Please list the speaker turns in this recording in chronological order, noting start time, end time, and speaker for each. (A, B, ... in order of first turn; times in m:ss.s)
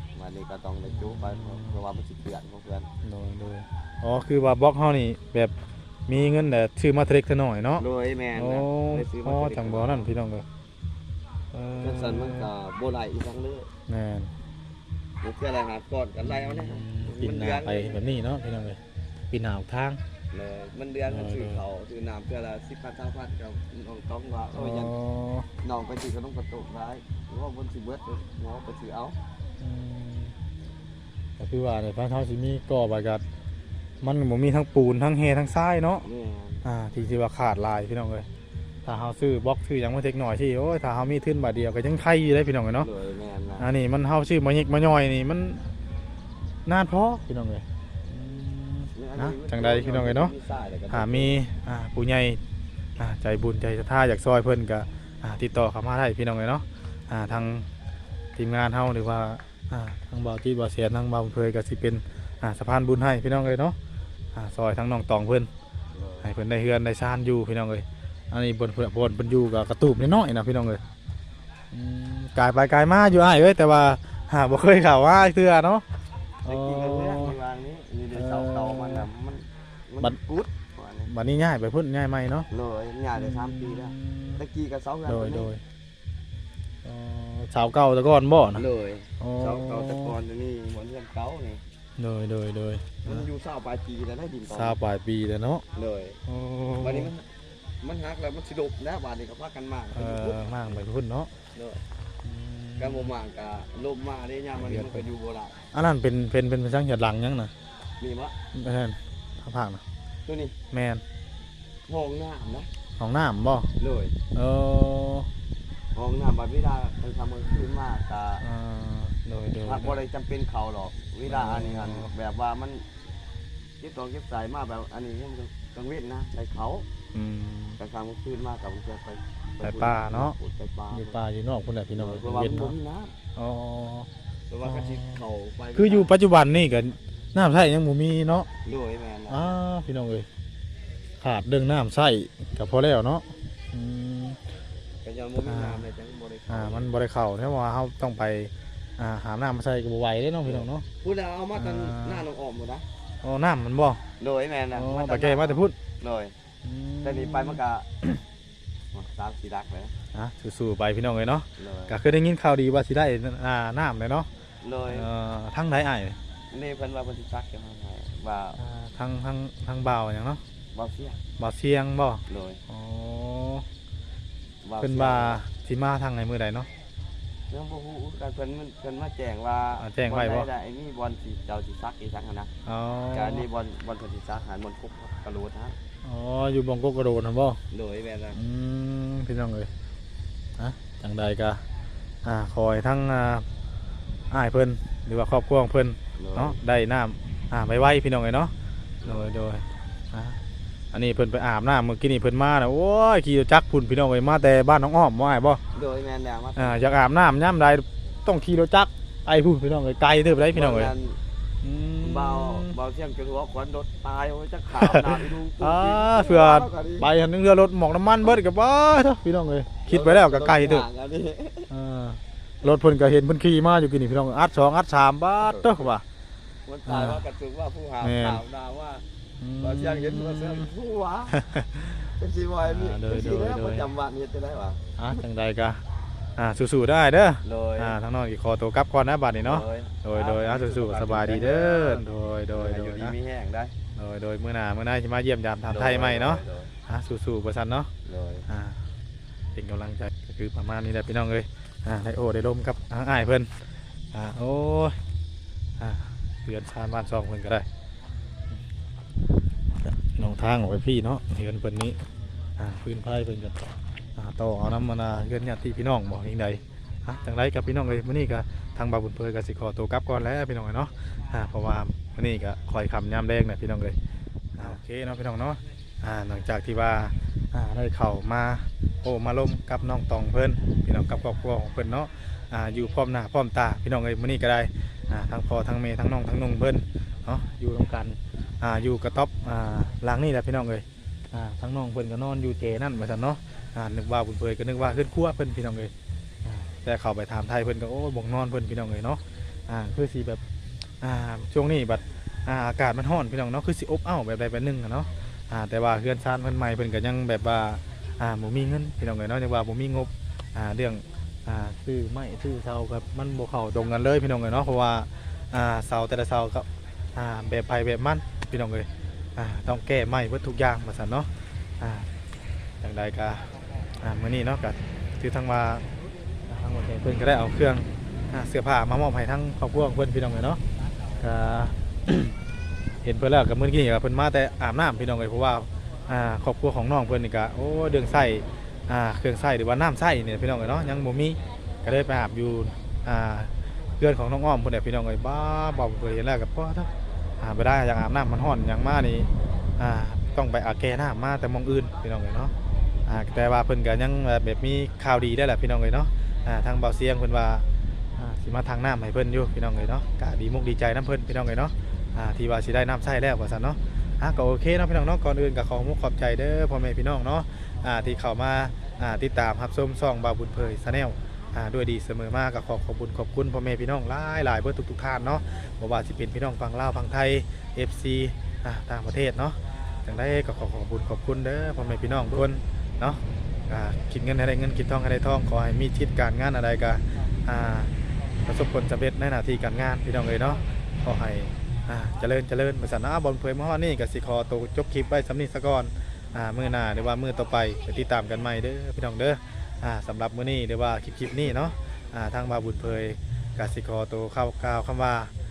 0:00.1-0:02.9 A
0:00.9-0:01.8 B
0:03.0-0:05.5 B
0:06.1-0:07.8 B
0:07.8-0:10.1 A
0:08.4-0:10.4 B
0:11.5-0:12.5 B
0:11.8-0:13.7 A
0:13.9-0:14.3 B
0:15.2-0:18.0 A
0:16.2-0:18.8 B
0:19.3-0:20.0 B
0:20.3-0:24.9 A
0:21.1-0:21.6 B
0:24.5-0:25.5 B
0:25.6-0:29.2 A
0:29.6-0:30.4 B
0:31.4-0:33.2 B
0:34.0-0:36.0 B
0:36.0-0:36.6 A
0:36.6-0:38.3 B
0:38.8-0:42.9 B
0:42.8-0:43.7 A
0:43.6-0:45.6 B
0:46.6-0:50.3 B
0:48.9-0:51.4 A
0:50.9-0:52.4 B
0:53.0-0:57.7 B
0:58.4-1:03.8 B
1:04.4-1:05.5 B
1:05.9-1:06.3 A
1:06.2-1:10.8 B
1:11.7-1:15.8 B
1:16.4-1:17.4 B
1:16.4-1:21.1 A
1:18.1-1:19.1 B
1:21.1-1:22.5 B
1:22.5-1:25.5 A
1:23.2-1:24.4 B
1:25.1-1:25.6 B
1:26.8-1:28.6 B
1:28.6-1:31.6 A
1:29.2-1:30.1 B
1:32.0-1:33.3 B
1:33.0-1:34.8 A
1:34.5-1:35.6 B
1:35.7-1:36.2 A
1:36.3-1:37.1 B
1:36.8-1:37.3 A
1:37.8-1:40.4 A
1:39.9-1:41.3 B
1:41.5-1:41.8 A
1:42.2-1:43.1 B
1:42.8-1:45.6 A
1:44.6-1:45.1 B
1:45.7-1:47.5 B
1:48.0-1:48.4 A
1:48.5-1:49.8 B
1:50.3-1:50.6 A
1:50.7-1:51.0 B
1:51.9-1:52.7 A
1:53.0-1:53.7 B
1:53.8-1:54.1 A
1:54.3-1:55.3 B
1:55.9-1:58.4 A
1:58.4-2:00.0 B
1:59.6-2:02.8 A
2:01.3-2:02.1 B
2:03.8-2:06.9 A
2:07.1-2:07.8 B
2:07.8-2:11.2 A
2:09.6-2:10.4 B
2:10.9-2:12.8 B
2:12.0-2:13.1 A
2:13.4-2:14.1 B
2:14.5-2:16.1 A
2:14.6-2:15.2 B
2:15.8-2:18.5 B
2:18.6-2:19.6 A
2:19.3-2:20.3 B
2:21.2-2:24.4 B
2:25.0-2:26.9 A
2:25.4-2:25.8 B
2:26.5-2:30.9 B
2:30.4-2:32.8 A
2:31.6-2:32.2 B
2:33.2-2:34.0 B
2:34.2-2:36.3 A
2:34.7-2:35.8 B
2:36.6-2:38.2 B
2:37.0-2:37.9 A
2:38.9-2:39.9 A
2:40.1-2:44.3 B
2:41.6-2:42.0 A
2:44.6-2:45.1 A
2:44.9-2:46.2 B
2:46.5-2:48.6 A
2:48.6-2:50.4 B
2:50.7-2:51.2 A
2:51.4-2:53.6 B
2:52.3-2:52.6 A
2:54.6-2:55.4 A
2:54.8-2:56.7 B
2:57.5-3:02.5 A
2:59.8-3:00.5 B
3:02.6-3:03.4 B
3:03.1-3:05.8 A
3:06.0-3:07.6 B
3:07.7-3:08.4 A
3:08.3-3:09.7 B
3:10.6-3:11.6 B
3:12.2-3:13.4 B
3:14.3-3:18.5 B
3:16.2-3:16.6 A
3:19.0-3:19.3 A
3:19.0-3:20.4 B
3:20.9-3:25.6 B
3:25.7-3:26.8 A
3:26.6-3:30.9 B
3:30.5-3:31.2 A
3:31.6-3:32.8 B
3:32.0-3:37.1 A
3:34.8-3:40.9 B
3:39.9-3:41.7 A
3:41.7-3:46.0 B
3:45.4-3:45.9 A
3:46.6-3:49.0 A
3:46.9-3:47.2 B
3:48.0-3:48.4 B
3:49.4-3:50.7 B
3:49.6-3:51.4 A
3:51.3-3:52.1 B
3:52.2-3:54.8 A
3:52.6-3:53.9 B
3:55.0-3:55.8 B
3:56.4-4:03.1 B
3:57.4-3:58.0 A
3:59.4-4:03.7 A
4:04.0-4:07.9 B
4:05.7-4:06.7 A
4:08.0-4:08.4 A
4:08.5-4:08.8 B
4:09.6-4:15.0 B
4:15.8-4:17.6 B
4:19.8-4:22.0 B
4:22.6-4:34.0 B
4:34.6-4:55.9 B
4:56.4-5:00.4 B
5:01.0-5:22.1 B
5:22.8-5:23.5 B
5:24.0-5:25.8 B
5:26.5-5:30.6 B
5:31.2-5:32.4 B
5:33.0-5:46.9 B
5:47.4-5:52.5 B
5:53.1-5:57.6 B
5:58.2-6:27.9 B
6:28.4-6:45.3 B